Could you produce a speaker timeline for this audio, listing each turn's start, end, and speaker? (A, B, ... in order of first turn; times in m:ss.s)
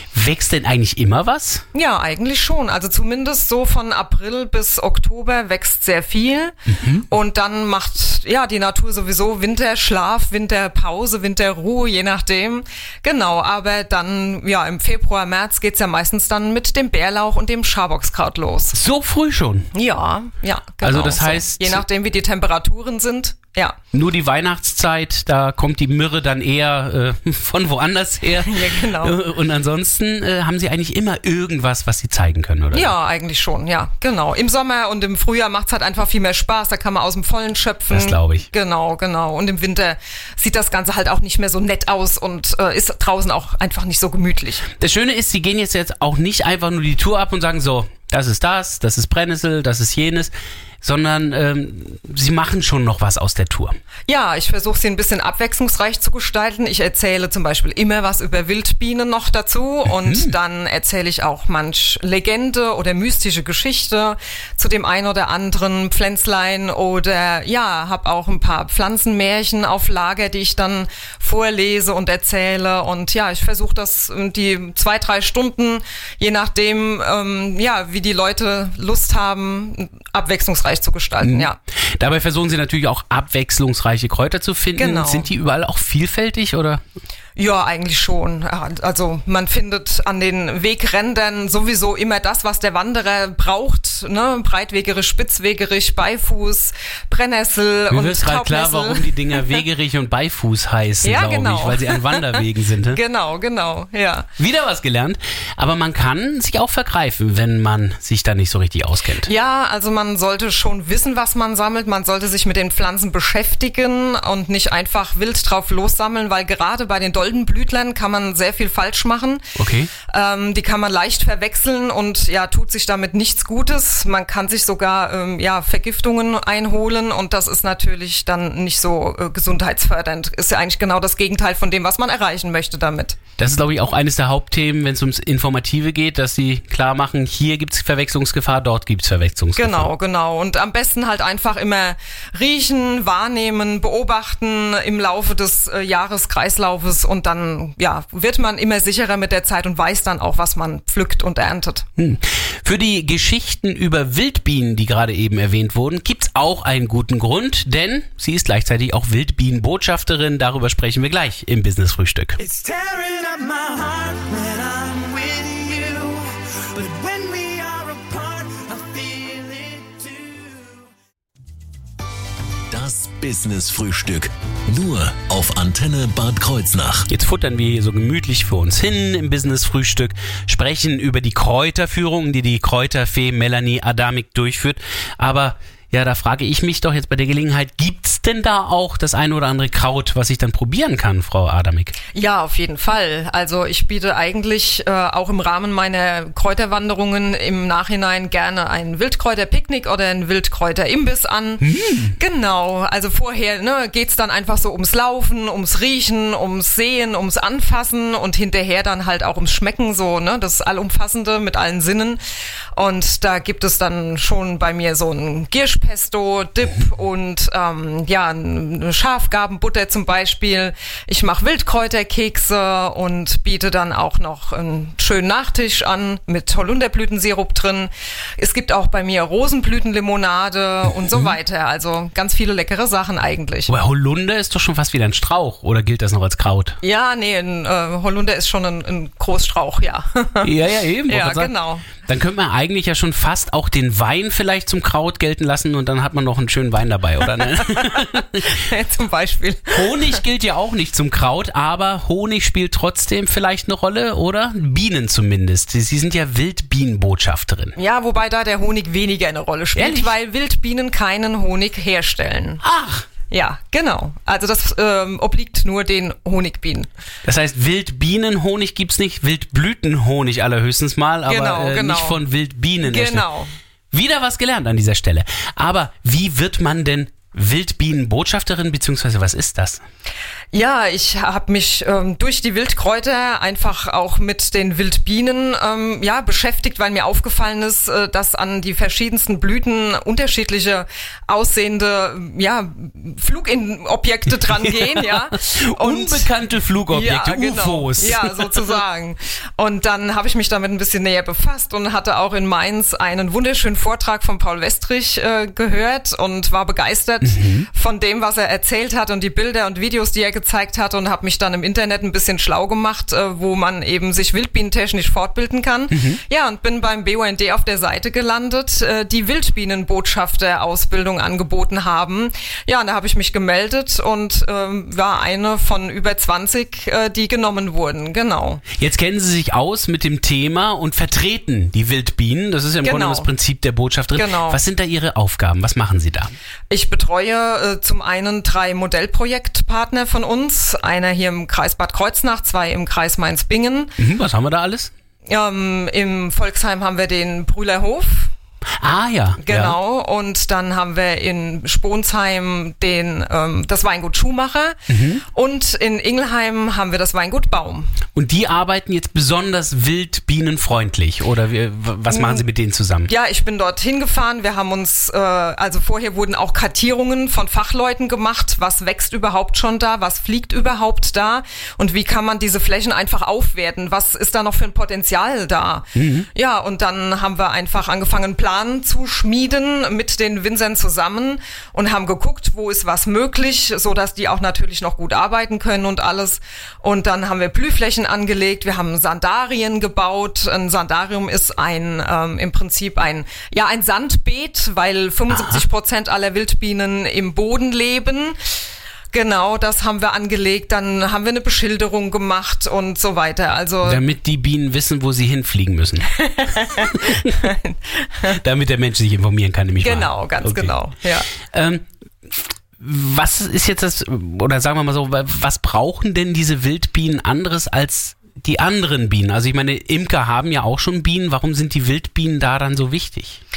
0:00.1-0:01.6 A
0:01.7-0:06.6 B
0:06.7-0:07.0 A
0:07.1-0:18.8 B
0:18.7-0:19.7 A
0:19.7-0:23.8 B
0:20.8-0:21.8 A
0:23.9-0:32.9 A
0:28.4-0:29.2 B
0:32.7-0:44.7 B
0:37.9-0:38.5 A
0:44.8-0:53.8 A
0:54.1-1:21.6 B
0:59.9-1:00.3 A
1:21.2-1:26.8 A
1:24.8-1:25.3 B
1:27.4-1:39.6 B
1:37.9-1:43.0 A
1:41.0-1:42.2 B
1:42.9-1:44.3 B
1:44.4-1:49.3 A
1:49.2-1:59.5 B
1:59.6-1:59.9 A
2:00.1-2:13.2 B
2:13.4-2:19.9 A
2:19.6-2:31.9 B
2:32.0-2:42.4 A
2:42.4-2:50.9 C
2:52.7-2:57.1 D
2:57.1-3:11.9 A
3:12.1-3:21.6 B
3:21.6-3:22.1 A
3:22.2-3:32.2 B
3:32.7-3:53.7 B
3:53.7-3:56.8 A
3:56.8-4:00.5 B
4:00.4-4:08.4 A
4:01.1-4:01.9 B
4:08.0-4:10.2 B
4:09.7-4:17.8 A
4:17.8-4:22.6 B
4:19.8-4:20.1 A
4:22.6-4:23.1 A
4:23.3-4:26.9 B
4:27.2-4:33.3 A
4:31.3-4:32.2 B
4:32.8-4:33.5 B
4:33.9-4:39.8 A
4:40.5-4:56.3 B
4:54.5-4:58.8 A
4:56.9-5:28.6 B
5:07.2-5:07.7 A
5:15.9-5:16.2 A
5:28.8-5:36.3 A
5:32.8-5:33.3 B
5:34.2-5:34.6 B
5:36.7-5:43.9 B
5:44.0-5:44.9 A
5:45.3-5:48.3 B
5:48.8-5:49.8 A
5:49.4-5:58.0 B
5:54.9-5:55.2 A
5:58.2-6:03.1 A
6:02.1-6:02.4 B
6:03.1-6:38.4 B
6:16.0-6:16.3 A
6:35.3-6:35.6 A
6:39.1-6:44.0 B
6:43.8-6:46.2 A
6:46.2-6:48.4 B
6:46.8-6:47.4 A
6:48.3-6:50.8 A
6:49.8-6:51.3 B
6:51.5-7:03.4 A